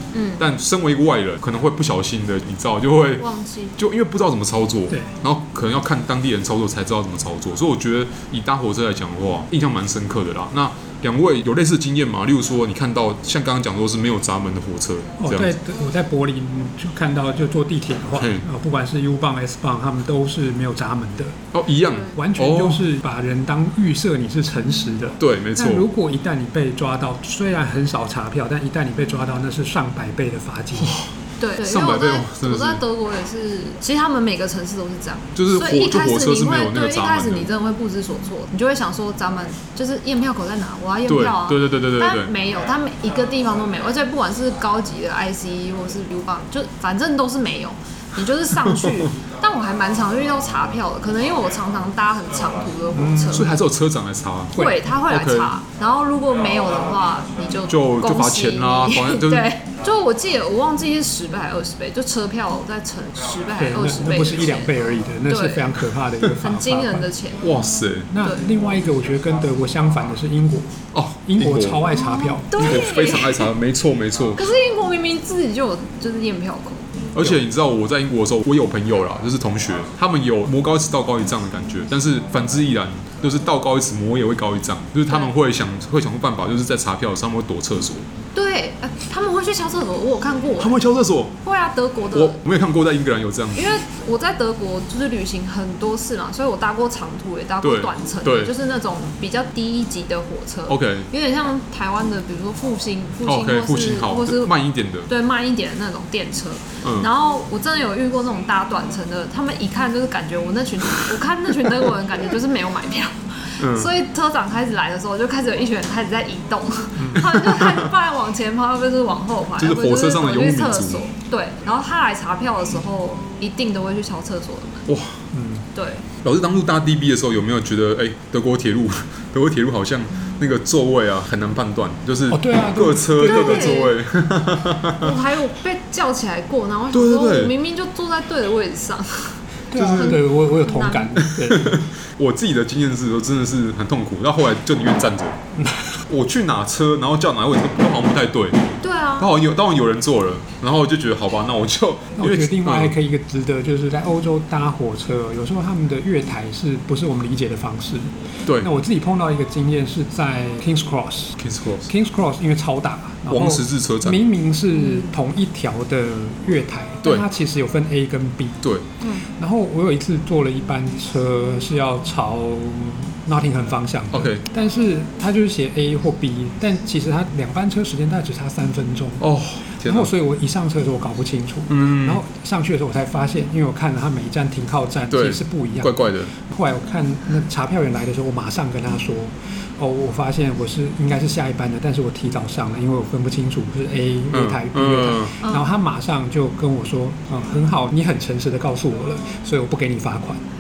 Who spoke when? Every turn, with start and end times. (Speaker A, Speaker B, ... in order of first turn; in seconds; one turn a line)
Speaker A: 0.1-0.4
Speaker B: 0.4-3.2
Speaker A: 3.2-3.8
Speaker B: 3.8-15.6
Speaker C: 15.2-21.4
Speaker B: 18.1-18.5
Speaker B: 21.5-22.9
Speaker C: 22.0-31.0
Speaker B: 25.2-25.9
Speaker B: 30.8-32.8
Speaker A: 31.4-53.6
Speaker B: 35.4-37.5
Speaker B: 41.1-42.3
Speaker B: 48.6-49.1
Speaker C: 52.9-53.4
Speaker B: 53.3-55.5
Speaker C: 54.5-54.9
Speaker A: 54.5-67.5
Speaker B: 57.7-59.5
Speaker C: 63.6-67.1
Speaker B: 67.4-68.1
Speaker C: 68.1-72.8
Speaker A: 68.2-68.5
Speaker B: 70.9-71.9
Speaker A: 71.9-73.5
Speaker B: 72.5-74.5
Speaker A: 74.4-76.9
Speaker B: 77.2-88.1
Speaker A: 88.3-90.8
Speaker B: 90.6-91.4
Speaker A: 91.4-92.4
Speaker B: 92.1-93.6
Speaker A: 93.5-104.5
Speaker B: 97.6-98.5
Speaker B: 100.7-101.1
Speaker B: 103.2-105.1
Speaker A: 105.1-124.8
Speaker B: 106.8-107.1
Speaker B: 113.6-113.9
Speaker C: 117.0-117.2
Speaker B: 117.0-117.9
Speaker B: 119.6-121.0
Speaker B: 124.9-125.2
Speaker C: 125.3-125.7
Speaker A: 125.8-126.1
Speaker B: 126.2-135.2
Speaker C: 132.3-133.8
Speaker A: 133.2-134.0
Speaker A: 135.0-141.2
Speaker B: 136.9-137.6
Speaker C: 139.7-141.8
Speaker B: 139.7-140.2
Speaker B: 141.2-145.4
Speaker C: 145.6-145.9
Speaker B: 146.1-148.6
Speaker A: 148.8-149.3
Speaker B: 149.2-152.9
Speaker C: 152.2-168.6
Speaker B: 161.4-161.9
Speaker B: 163.3-164.3
Speaker A: 164.7-165.1
Speaker A: 169.0-169.3
Speaker C: 169.3-179.2
Speaker B: 174.1-174.4
Speaker B: 179.2-180.1
Speaker C: 179.8-200.4
Speaker B: 181.7-182.2
Speaker B: 185.1-186.3
Speaker B: 194.3-195.3
Speaker A: 195.4-195.7